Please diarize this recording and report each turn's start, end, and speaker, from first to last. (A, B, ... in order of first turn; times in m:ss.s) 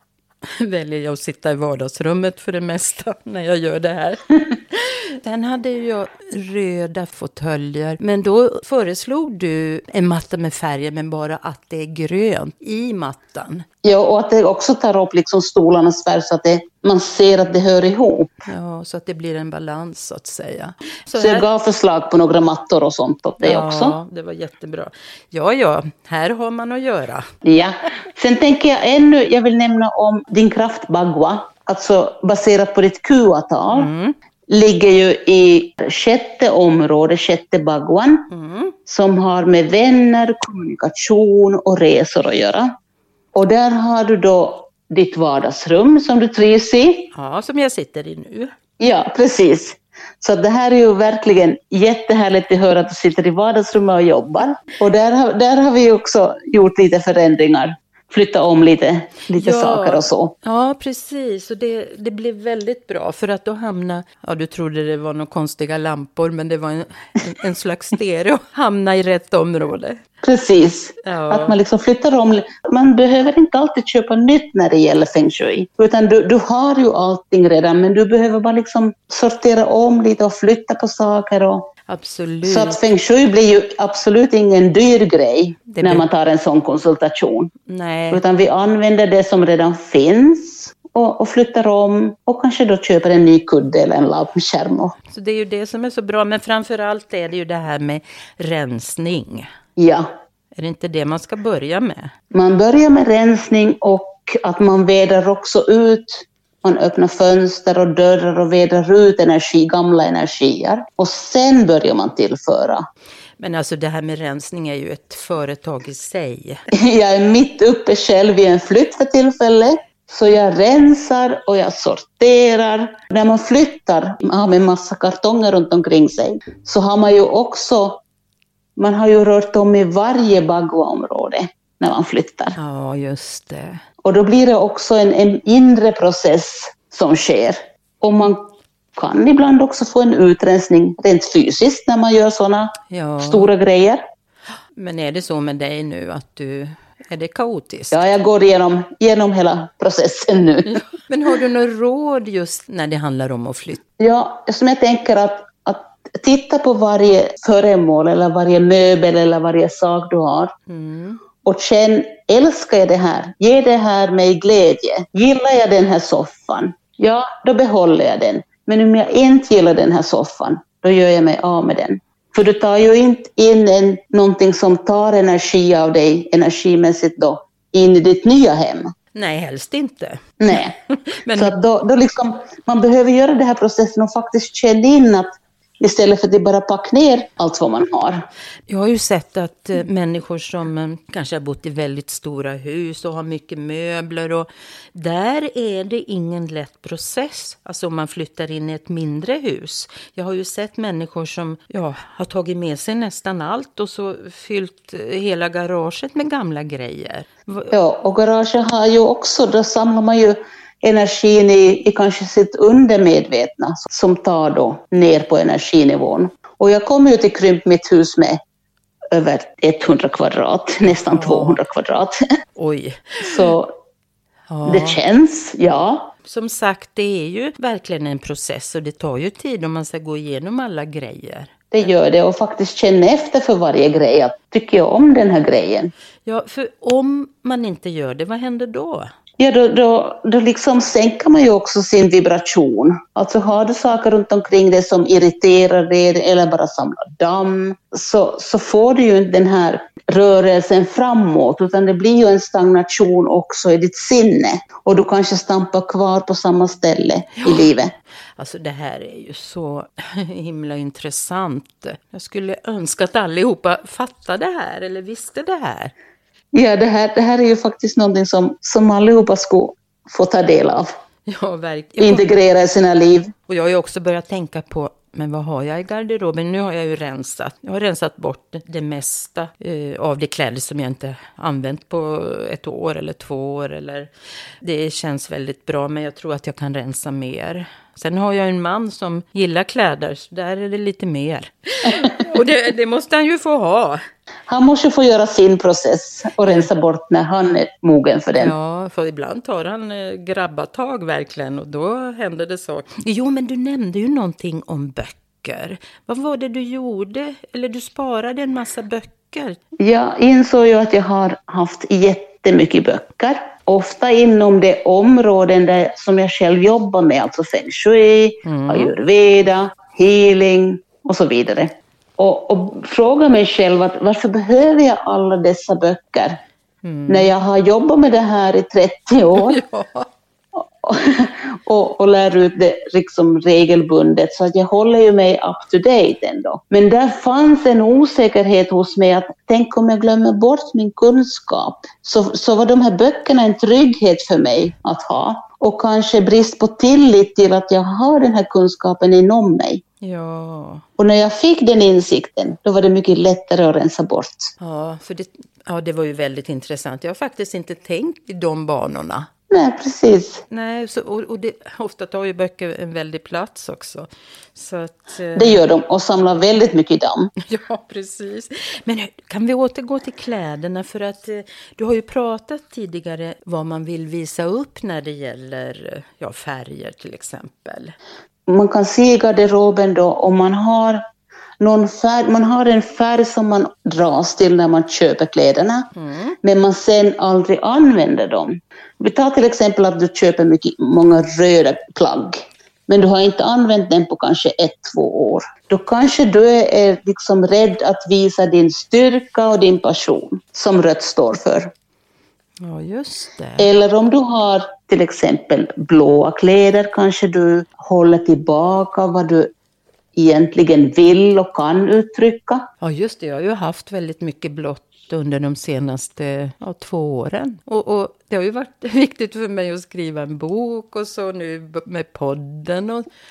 0:00.4-0:13.6 A
0:13.8-0:18.3 B
0:18.5-0:21.5 A
0:21.1-0:24.0 B
0:23.4-0:27.3 A
0:27.4-0:33.9 B
0:33.7-0:34.1 A
0:34.5-0:38.3 B
0:38.3-0:38.8 A
0:38.9-0:42.7 B
0:43.3-0:47.1 B
0:47.1-0:48.5 A
0:48.8-1:00.3 B
0:59.3-1:10.0 A
1:10.2-1:21.7 B
1:11.0-1:11.6 A
1:21.9-1:22.8 A
1:22.4-1:27.5 B
1:25.7-1:26.0 A
1:27.7-1:28.2 A
1:28.1-1:34.9 B
1:35.1-1:39.5 A
1:39.8-1:40.1 B
1:40.5-1:42.1 A
1:42.3-1:52.9 B
1:53.4-1:56.6 A
1:56.8-2:08.0 B
2:08.8-2:12.5 B
2:12.6-2:13.8 A
2:14.0-2:24.0 B
2:22.9-2:23.5 A
2:24.8-2:28.0 A
2:27.9-2:30.8 B
2:30.7-2:33.8 A
2:34.0-2:40.5 B
2:40.7-2:41.2 A
2:41.4-2:58.9 B
2:59.1-3:00.6 A
3:00.4-3:00.7 B
3:01.1-3:01.5 A
3:01.3-3:08.2 B
3:08.7-3:27.7 A
3:27.7-3:38.4 B
3:39.1-3:42.2 B
3:40.9-3:41.6 A
3:42.6-3:43.4 A
3:43.2-3:43.7 B
3:44.5-3:45.0 A
3:44.6-3:46.1 B
3:46.2-3:51.5 A
3:51.7-3:55.9 B
3:56.2-3:59.1 A
3:59.4-4:17.9 B
4:17.4-4:17.7 A
4:18.4-4:25.9 A
4:26.5-4:30.9 B
4:31.3-4:32.3 A
4:32.0-4:33.3 B
4:33.5-4:44.1 A
4:44.6-4:54.0 A
4:54.5-4:58.5 B
4:58.4-5:09.6 A
5:09.8-5:26.4 B
5:18.4-5:18.9 A
5:26.8-5:27.3 A
5:27.1-5:29.6 B
5:29.3-5:30.1 A
5:30.6-5:49.8 B
5:50.0-5:50.8 A
5:51.0-5:54.5 B
5:54.6-5:59.3 A
5:59.5-6:00.4 B
6:00.5-6:05.6 A
6:05.3-6:07.3 B
6:07.4-6:17.9 A
6:18.5-6:21.0 B
6:21.6-6:25.9 B
6:26.0-6:26.4 A
6:26.4-6:41.7 B
6:42.6-6:43.7 A
6:43.6-6:49.5 B
6:50.2-6:52.7 B
6:52.8-7:03.0 A